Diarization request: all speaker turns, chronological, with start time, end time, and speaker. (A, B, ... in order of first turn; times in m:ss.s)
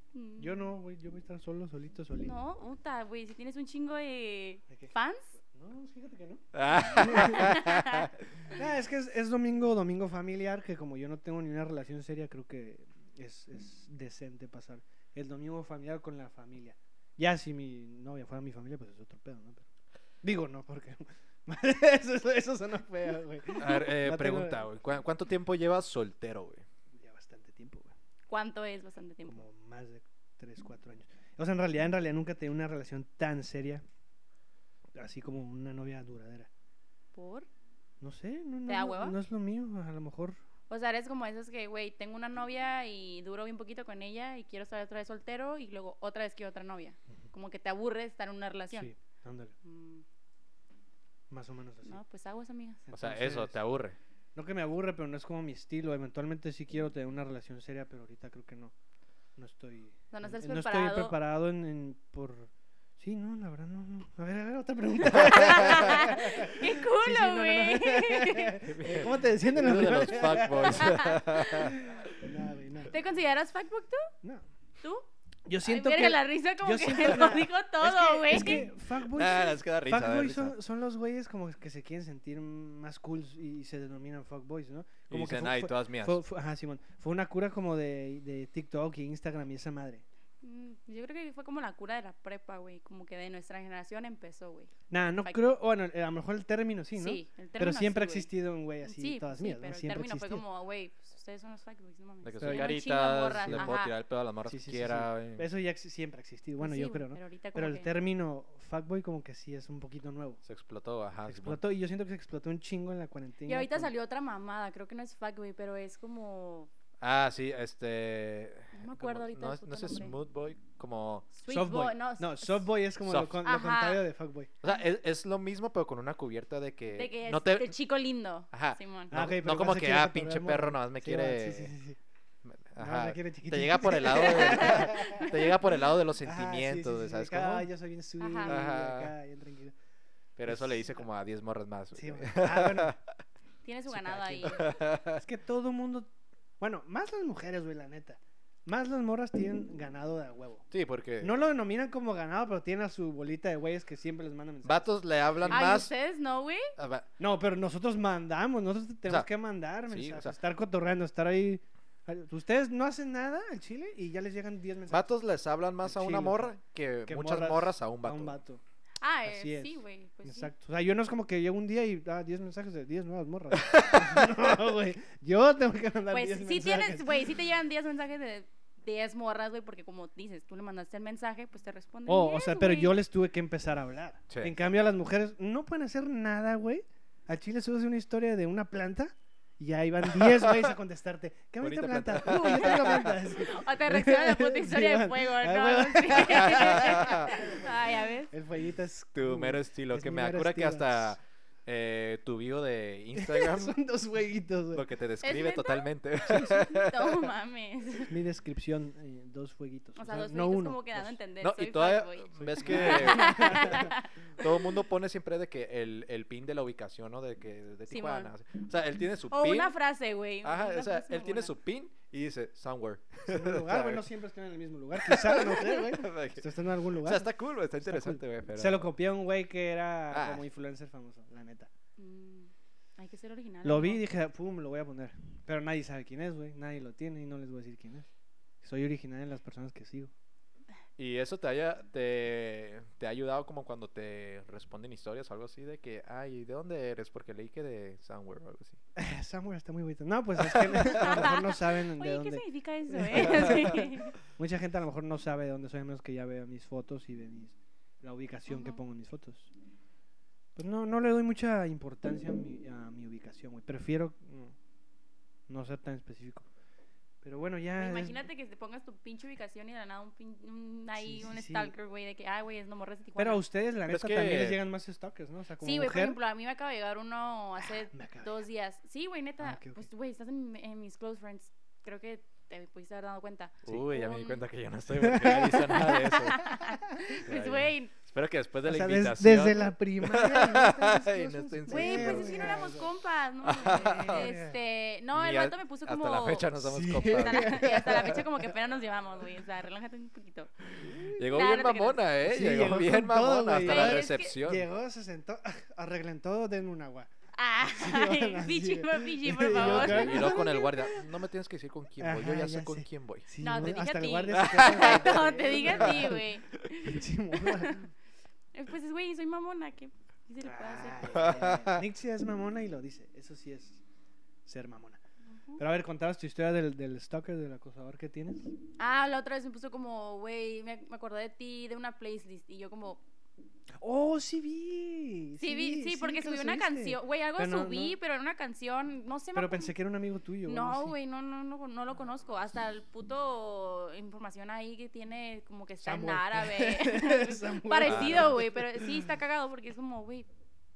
0:00.1-0:00.7 A
0:00.4-0:02.4 B
0:02.2-0:05.3 A
0:05.5-0:07.6 B
0:06.5-0:08.2 C
0:06.8-0:08.1 A
0:08.5-0:19.7 B
0:20.2-0:24.6 B
0:23.6-0:26.7 C
0:26.9-0:27.9 B
0:28.3-0:29.4 A
0:29.3-0:33.8 B
0:34.9-0:36.5 B
0:37.1-0:37.5 A
0:38.0-0:40.4 B
0:38.7-0:39.2 A
0:40.7-0:48.9 A
0:48.7-0:49.6 B
0:49.6-0:50.0 A
0:51.3-0:52.0 B
0:51.8-0:52.8 A
0:52.9-0:53.6 B
0:52.9-0:54.0 C
0:54.4-0:58.7 B
0:59.4-1:11.2 B
1:00.1-1:01.2 A
1:05.1-1:08.7 A
1:08.7-1:11.8 C
1:10.0-1:11.8 A
1:11.8-1:13.0 B
1:12.9-1:14.1 A
1:14.8-1:15.1 A
1:15.5-1:30.0 B
1:15.6-1:18.7 A
1:19.1-1:20.6 C
1:25.1-1:26.2 C
1:30.4-1:35.4 A
1:34.9-1:40.4 B
1:37.0-1:38.3 A
1:38.8-1:43.9 A
1:42.2-1:45.4 C
1:42.4-1:42.8 B
1:43.4-1:43.8 B
1:44.4-1:50.4 B
1:46.6-1:47.9 A
1:50.4-1:51.6 C
1:51.3-1:53.9 B
1:53.4-1:56.7 A
1:57.0-2:01.3 C
1:58.7-2:00.1 A
2:01.3-2:02.7 A
2:01.5-2:04.5 B
2:03.1-2:03.4 C
2:03.4-2:04.0 A
2:04.6-2:07.7 C
2:06.9-2:09.1 A
2:08.5-2:11.7 C
2:09.1-2:12.0 B
2:12.4-2:17.7 C
2:12.8-2:15.3 B
2:14.0-2:15.5 A
2:16.2-2:19.8 B
2:18.2-2:18.6 A
2:18.4-2:19.1 C
2:20.4-2:23.1 C
2:20.5-2:21.0 B
2:21.9-2:22.9 B
2:23.6-2:24.7 A
2:23.9-2:24.6 B
2:24.4-2:25.2 C
2:25.2-2:30.7 B
2:30.7-2:31.4 C
2:31.2-2:35.8 B
2:34.6-2:35.9 C
2:35.5-2:36.7 A
2:36.8-2:37.1 C
2:37.2-2:45.1 B
2:39.9-2:40.4 C
2:44.9-2:48.4 C
2:45.8-2:46.5 B
2:47.1-2:48.6 B
2:49.0-2:50.5 A
2:49.3-2:57.2 B
2:53.6-2:54.2 C
2:56.1-3:03.0 A
3:02.1-3:21.2 B
3:04.3-3:04.6 C
3:10.2-3:10.7 C
3:11.6-3:13.2 C
3:13.3-3:18.3 A
3:16.1-3:17.3 C
3:19.1-3:23.8 C
3:23.1-3:24.9 B
3:24.7-3:27.3 C
3:25.2-3:28.1 A
3:28.1-3:31.1 B
3:30.0-3:34.5 A
3:31.4-3:39.7 C
3:32.4-3:33.9 B
3:37.9-3:38.3 A
3:39.3-3:41.5 A
3:40.4-3:44.1 C
3:43.3-3:47.3 B
3:45.1-3:48.9 C
3:47.8-3:51.7 B
3:50.1-3:50.4 C
3:52.0-3:54.0 A
3:53.6-3:58.1 B
3:58.6-4:00.1 B
4:01.0-4:08.8 C
4:09.0-4:19.5 B
4:10.9-4:14.2 A
4:18.5-4:18.8 A
4:20.6-4:24.6 B
4:25.5-4:26.5 B
4:27.2-4:28.3 B
4:27.7-4:33.4 A
4:31.0-4:31.7 B
4:33.2-4:36.2 B
4:33.9-4:34.6 C
4:35.6-4:44.4 A
4:37.6-4:38.3 B
4:39.4-4:39.9 B
4:43.6-4:46.5 C
4:45.0-4:45.5 B
4:45.5-4:47.9 A
4:47.2-4:52.6 C
4:48.6-4:52.9 B
4:51.7-5:00.5 A
4:53.4-4:54.3 C
4:53.6-4:54.6 B
4:55.1-4:58.2 C
4:56.6-4:58.5 B
5:00.8-5:04.7 C
5:00.8-5:01.2 B
5:01.2-5:02.1 A
5:02.2-5:07.1 B
5:03.6-5:04.4 A
5:07.4-5:11.0 A
5:07.7-5:10.6 B
5:09.5-5:13.3 C
5:12.0-5:16.3 B
5:13.4-5:17.9 A
5:14.4-5:15.2 C
5:16.8-5:17.9 B
5:18.5-5:21.5 A
5:20.4-5:23.8 B
5:21.1-5:21.8 C
5:24.5-5:25.0 B
5:25.4-5:25.6 A
5:25.6-5:28.5 B
5:28.8-5:33.0 A
5:33.8-5:38.0 B
5:35.4-5:39.7 A
5:39.4-5:41.0 B
5:40.4-5:50.3 A
5:45.8-5:49.1 B
5:47.9-5:48.4 C